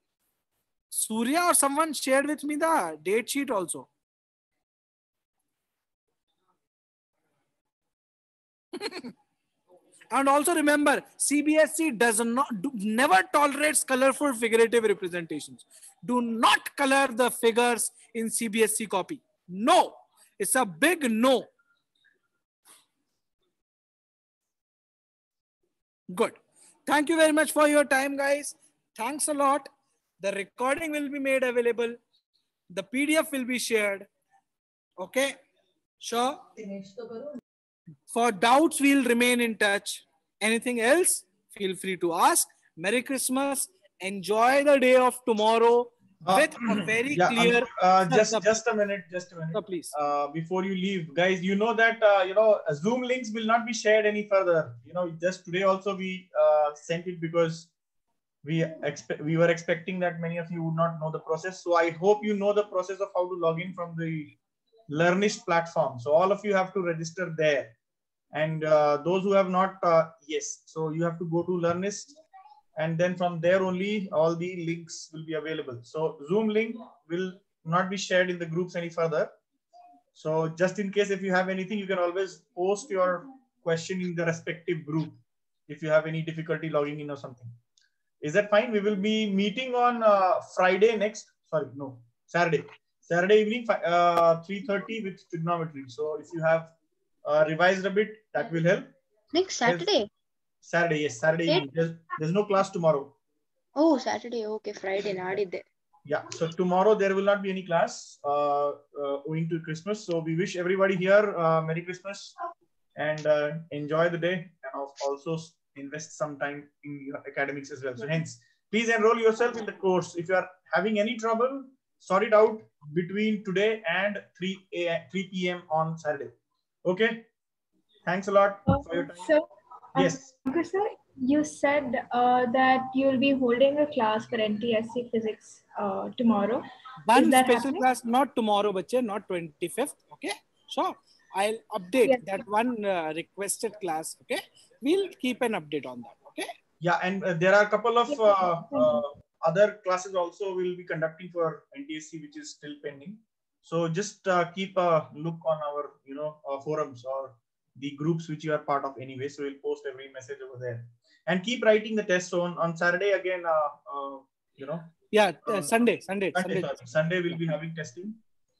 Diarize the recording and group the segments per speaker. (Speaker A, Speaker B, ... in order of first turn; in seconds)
Speaker A: 0.9-3.9, 8.8-9.1, 10.1-21.5, 26.1-29.7, 30.2-32.0, 32.7-34.1, 35.0-35.4, 36.0-36.5, 38.1-48.5, 49.5-49.9, 137.0-146.5, 165.1-167.4
Speaker B: 46.2-57.7, 58.4-64.3, 64.9-67.8, 68.3-72.2, 72.8-79.3, 80.2-87.6, 88.2-96.7, 97.2-98.9, 99.7-99.9, 100.6-103.2, 106.1-112.3, 113.0-126.3, 126.8-127.3, 128.1-129.3, 130.0-130.3, 146.8-164.9, 165.4-165.8, 166.3-168.2
Speaker C: 99.3-100.1, 103.8-105.7
Speaker D: 128.7-137.8, 142.0-142.5, 148.1-149.0